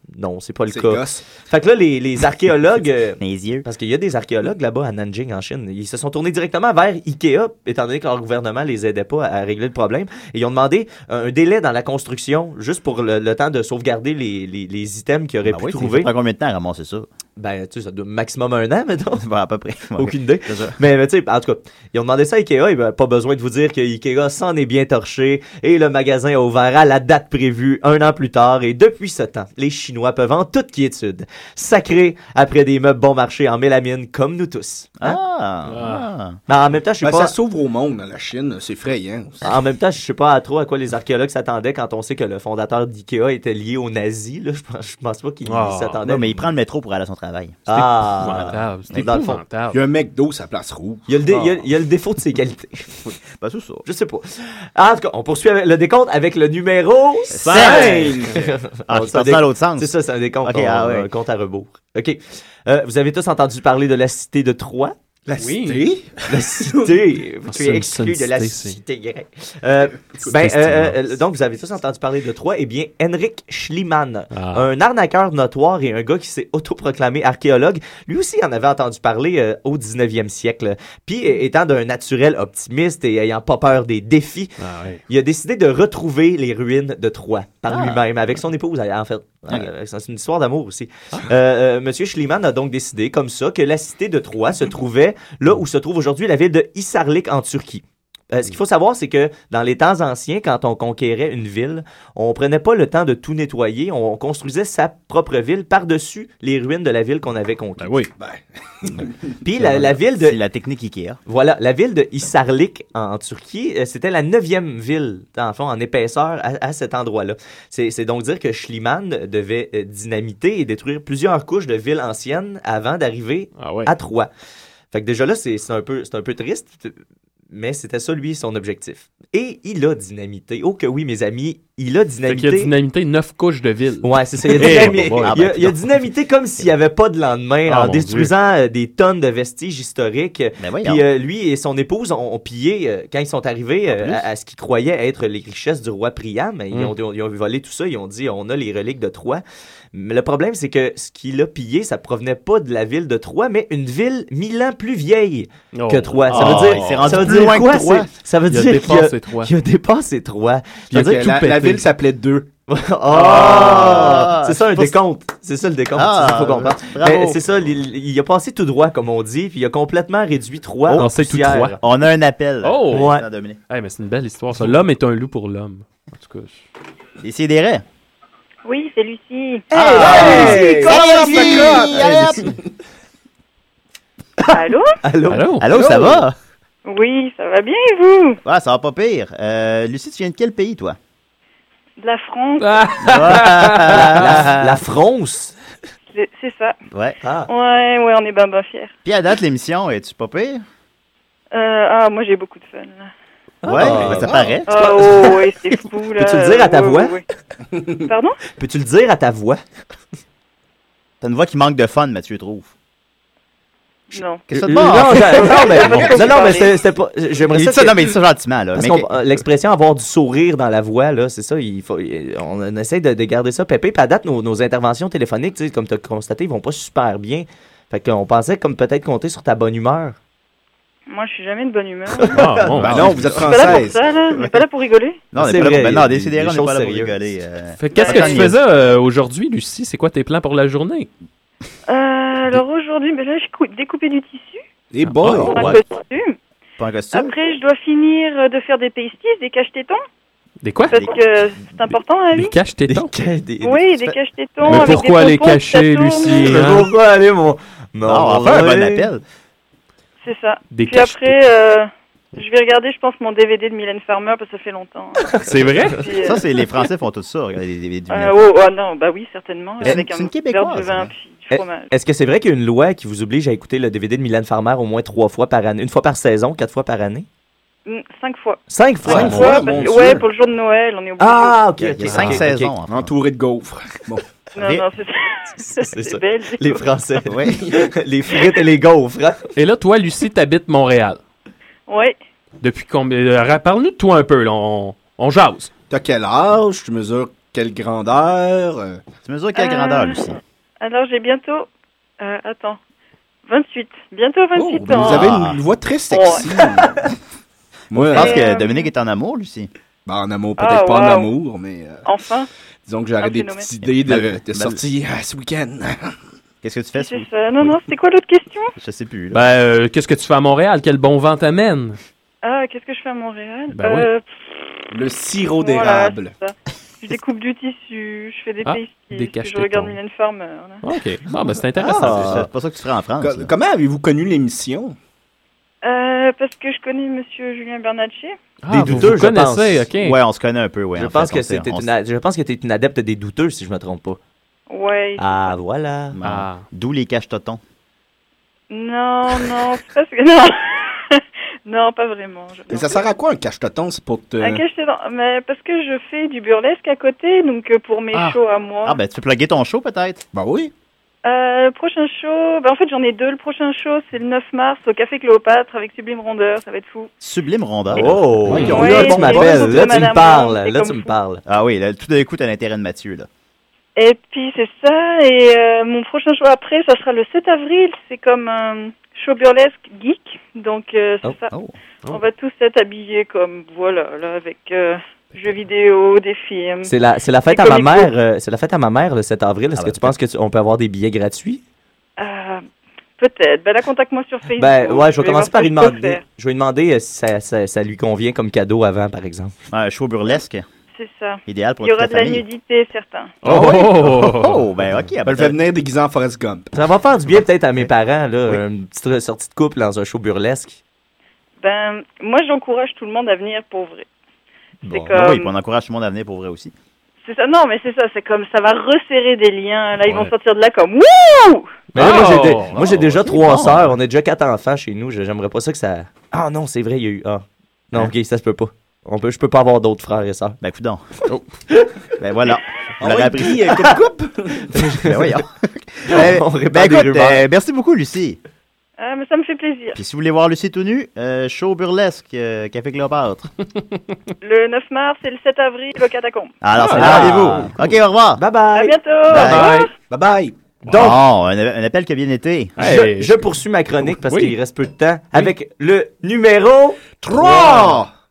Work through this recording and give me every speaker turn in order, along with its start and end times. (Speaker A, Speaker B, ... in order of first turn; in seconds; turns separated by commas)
Speaker A: 0.1-16.1, Speaker B: 0.7-1.2, Speaker C: 3.2-3.6, Speaker C: 15.4-17.1, Speaker A: 17.4-19.2, Speaker C: 19.2-20.8, Speaker A: 20.0-35.1, Speaker C: 35.0-36.4, Speaker D: 35.7-36.1, Speaker A: 36.5-37.4, Speaker B: 37.0-39.5, Speaker A: 39.4-46.5, Speaker D: 45.5-46.0, Speaker C: 46.0-49.1, Speaker A: 47.7-49.4, Speaker D: 48.2-49.8, Speaker B: 49.7-51.1, Speaker A: 51.1-53.0, Speaker C: 51.3-51.6, Speaker C: 53.1-53.9, Speaker A: 53.9-64.9, Speaker C: 57.3-58.3, Speaker D: 57.4-58.4, Speaker C: 58.9-59.9, Speaker C: 60.4-61.1, Speaker B: 65.3-66.9, Speaker D: 65.4-65.9, Speaker A: 66.3-84.5, Speaker D: 67.5-68.8, Speaker D: 70.3-71.0, Speaker D: 74.3-74.7, Speaker D: 84.6-85.0, Speaker A: 85.1-107.9, Speaker C: 87.7-88.0, Speaker D: 107.8-108.1, Speaker B: 108.2-109.2, Speaker A: 109.4-110.4, Speaker C: 109.5-111.2, Speaker A: 111.3-124.3, Speaker D: 123.6-123.9, Speaker A: 124.9-127.0, Speaker A: 127.5-132.7, Speaker D: 132.3-135.9, Speaker A: 134.0-149.4, Speaker C: 134.5-135.7, Speaker D: 137.7-138.1, Speaker C: 137.7-138.3, Speaker C: 140.6-141.0, Speaker A: 149.9-161.7, Speaker D: 155.7-157.5, Speaker C: 156.3-158.1, Speaker D: 158.4-159.5, Speaker B: 160.9-162.5, Speaker D: 160.9-161.8, Speaker A: 162.7-171.8, Speaker D: 163.2-164.2, Speaker C: 163.2-165.0, Speaker C: 165.9-167.7, Speaker C: 170.8-171.1, Speaker D: 170.9-171.8, Speaker C: 171.8-173.6, Speaker D: 172.6-176.7, Speaker A: 172.9-173.2, Speaker C: 177.2-177.8, Speaker E: 178.7-179.7, Speaker A: 179.7-181.9, Speaker C: 179.7-182.6, Speaker B: 179.9-182.6, Speaker E: 184.5-184.9, Speaker A: 185.0-185.9, Speaker D: 185.3-185.7, Speaker C: 185.6-186.3, Speaker B: 185.7-186.2, Speaker E: 186.8-188.4, Speaker C: 188.4-191.0, Speaker E: 192.0-192.9, Speaker D: 192.6-194.3, Speaker C: 193.0-194.8, Speaker A: 193.9-195.6, Speaker E: 196.1-196.8, Speaker C: 196.9-197.2, Speaker A: 197.2-197.5, Speaker E: 197.5-198.9, Speaker C: 199.1-200.6, Speaker E: 201.5-203.1, Speaker A: 203.6-205.4, Speaker C: 203.7-204.7, Speaker E: 204.7-207.2, Speaker A: 206.2-207.1, Speaker E: 208.0-208.4, Speaker A: 208.6-209.6, Speaker C: 211.2-212.7, Speaker E: 214.1-216.8, Speaker C: 214.5-216.4, Speaker A: 214.5-218.1, Speaker C: 217.5-219.1, Speaker A: 218.8-230.2, Speaker E: 231.1-232.3, Speaker A: 232.2-233.8, Speaker D: 232.3-233.2, Speaker B: 232.8-234.1, Speaker C: 232.8-233.3, Speaker E: 233.4-235.2, Speaker C: 235.3-238.6, Speaker A: 235.4-237.1, Speaker D: 237.8-241.1, Speaker E: 237.9-238.3, Speaker E: 241.9-244.6, Speaker B: 244.9-245.7, Speaker D: 245.1-245.6, Speaker C: 245.3-245.8, Speaker E: 245.4-246.4, Speaker C: 246.8-247.3, Speaker E: 247.1-250.0, Speaker D: 250.6-251.0, Speaker E: 250.9-252.6, Speaker C: 250.9-251.2, Speaker D: 252.3-253.1, Speaker A: 252.9-254.1, Speaker E: 253.6-256.6, Speaker D: 254.7-256.9, Speaker A: 256.4-259.1, Speaker C: 258.1-259.2, Speaker E: 260.2-265.4, Speaker D: 260.7-261.4, Speaker D: 265.4-266.0, Speaker E: 265.9-266.4, Speaker C: 266.1-268.4, Speaker E: 268.1-271.9, Speaker C: 269.8-271.1, Speaker A: 271.5-277.3, Speaker E: 277.9-278.6, Speaker A: 278.7-279.4, Speaker D: 279.1-279.6, Speaker B: 279.1-280.2, Speaker E: 279.3-281.7, Speaker A: 281.2-282.7, Speaker C: 281.8-283.1, Speaker D: 282.1-282.4, Speaker B: 282.9-284.2, Speaker E: 284.6-287.0, Speaker C: 284.6-284.9, Speaker A: 285.6-289.4, Speaker C: 287.3-287.6, Speaker B: 287.6-287.8, Speaker D: 289.6-291.2, Speaker E: 291.9-292.1, Speaker D: 292.6-295.7, Speaker B: 295.9-299.0, Speaker C: 299.2-300.4, Speaker E: 299.6-300.2, Speaker E: 300.8-301.7, Speaker E: 302.2-302.8, Speaker E: 303.5-305.4, Speaker B: 304.6-307.1, Speaker C: 304.9-305.6, Speaker E: 306.1-306.5, Speaker B: 307.9-308.4, Speaker C: 307.9-309.7, Speaker E: 308.1-308.9, Speaker B: 310.1-312.0, Speaker E: 310.6-311.3, Speaker E: 312.1-312.5, Speaker B: 312.9-316.1, Speaker E: 313.2-313.7, Speaker C: 313.8-314.8, Speaker C: 316.6-317.8, Speaker E: 316.9-318.7, Speaker C: 318.8-319.4, Speaker D: 319.3-322.0, Speaker E: 322.4-324.7, Speaker D: 323.7-324.1, Speaker B: 324.9-326.3, Speaker E: 325.6-330.8, Speaker D: 328.6-330.0, Speaker D: 330.8-332.4, Speaker C: 331.8-333.5, Speaker B: 333.2-334.9, Speaker E: 335.8-338.4, Speaker D: 338.6-340.2, Speaker A: 338.7-339.9, Speaker C: 340.0-341.9, Speaker A: 341.0-344.2, Speaker E: 344.7-345.6, Speaker A: 345.2-346.2, Speaker C: 346.1-347.6, Speaker D: 346.2-346.6, Speaker E: 348.7-353.1, Speaker B: 352.7-354.6, Speaker E: 354.4-359.0, Speaker C: 358.9-360.2, Speaker B: 360.3-360.7, Speaker E: 361.2-367.1, Speaker C: 367.2-370.0, Speaker A: 367.9-371.4, Speaker B: 368.5-369.8, Speaker E: 368.7-371.1, Speaker C: 371.4-373.3, Speaker E: 374.0-381.5, Speaker E: 382.1-386.9, Speaker A: 386.9-391.6, Speaker E: 387.5-388.1, Speaker C: 389.8-390.1, Speaker E: 392.2-392.6, Speaker E: 393.2-396.2, Speaker A: 394.6-399.5, Speaker C: 399.7-400.6, Speaker E: 401.0-403.4, Speaker C: 401.5-402.4, Speaker D: 403.4-404.7, Speaker C: 403.4-405.6, Speaker B: 405.2-406.7, Speaker A: 406.7-410.8, Speaker E: 411.6-414.1, Speaker A: 414.8-415.1, Speaker E: 414.9-415.5, Speaker C: 415.1-416.7, Speaker E: 417.2-421.7, Speaker D: 420.0-420.3, Speaker A: 421.9-430.6, Speaker D: 421.9-422.8, Speaker C: 422.7-423.9, Speaker C: 430.6-431.0, Speaker C: 432.2-433.7, Speaker B: 433.0-434.6, Speaker A: 434.7-435.3, Speaker C: 435.0-438.4, Speaker A: 436.1-437.4, Speaker E: 439.0-440.0, Speaker C: 439.9-443.5, Speaker E: 444.4-446.6, Speaker C: 446.6-448.4, Speaker D: 446.8-447.7, Speaker A: 446.9-447.6, Speaker A: 448.4-449.5, Speaker E: 448.7-449.9, Speaker C: 449.3-449.7, Speaker D: 449.3-449.9, Speaker B: 450.1-450.5, Speaker A: 450.9-451.2, Speaker C: 450.9-452.7, Speaker D: 452.8-454.6, Speaker A: 452.8-457.0, Speaker B: 457.2-458.1